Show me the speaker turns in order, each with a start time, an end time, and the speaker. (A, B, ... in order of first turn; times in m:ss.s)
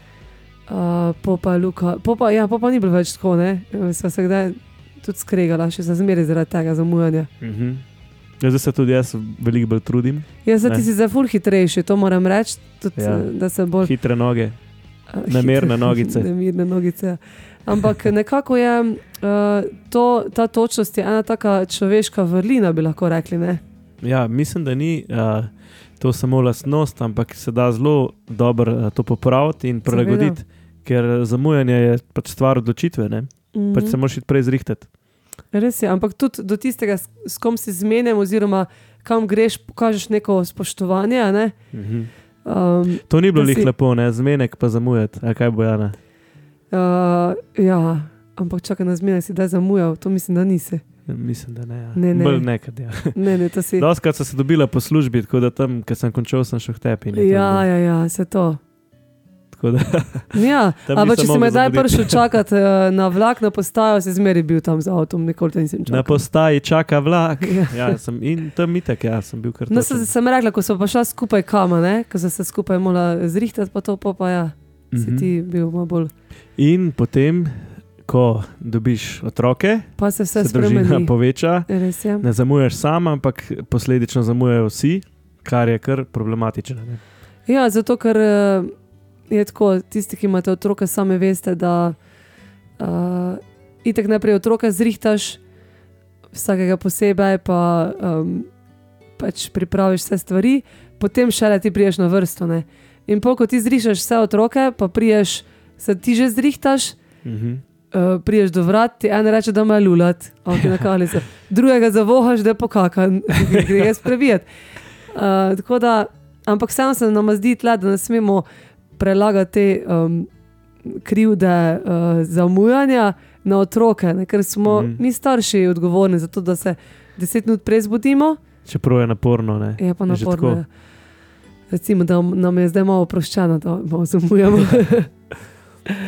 0:00.7-0:07.3 A
0:07.4-0:07.8 B
0:08.4-0:10.9 B
0:10.4-0:13.9 A
0:13.0-0:13.3 B
0:13.8-0:14.6 B
0:15.1-0:23.6 A
0:15.3-0:16.3 B
0:24.0-0:34.9 B
0:29.9-0:30.4 A
0:33.5-0:34.0 A
0:35.5-0:41.6 A
0:41.7-0:42.1 B
0:42.4-0:43.7 A
0:43.1-0:46.0 B
0:46.7-0:50.8 A
0:51.1-0:53.2 B
0:51.9-0:52.5 A
0:53.2-0:53.9 A
0:53.8-0:57.6 B
0:57.1-0:58.6 A
0:59.5-1:02.3 B
1:00.3-1:06.2 A
1:05.9-1:10.1 B
1:07.4-1:08.0 A
1:09.7-1:16.1 A
1:14.9-1:15.3 B
1:16.6-1:21.7 B
1:20.0-1:21.1 A
1:21.7-1:22.3 A
1:22.2-1:27.0 B
1:27.5-1:28.7 A
1:29.3-1:32.0 A
1:32.8-1:35.4 A
1:36.3-1:38.5 A
1:39.2-1:47.0 A
1:47.2-1:47.6 B
1:47.9-1:54.5 A
1:50.6-1:50.8 B
1:53.4-1:53.9 B
1:55.1-1:58.4 A
1:59.0-2:00.3 A
2:00.8-2:08.4 A
2:04.7-2:05.0 B
2:08.7-2:10.6 B
2:09.8-2:10.7 A
2:11.7-2:15.1 A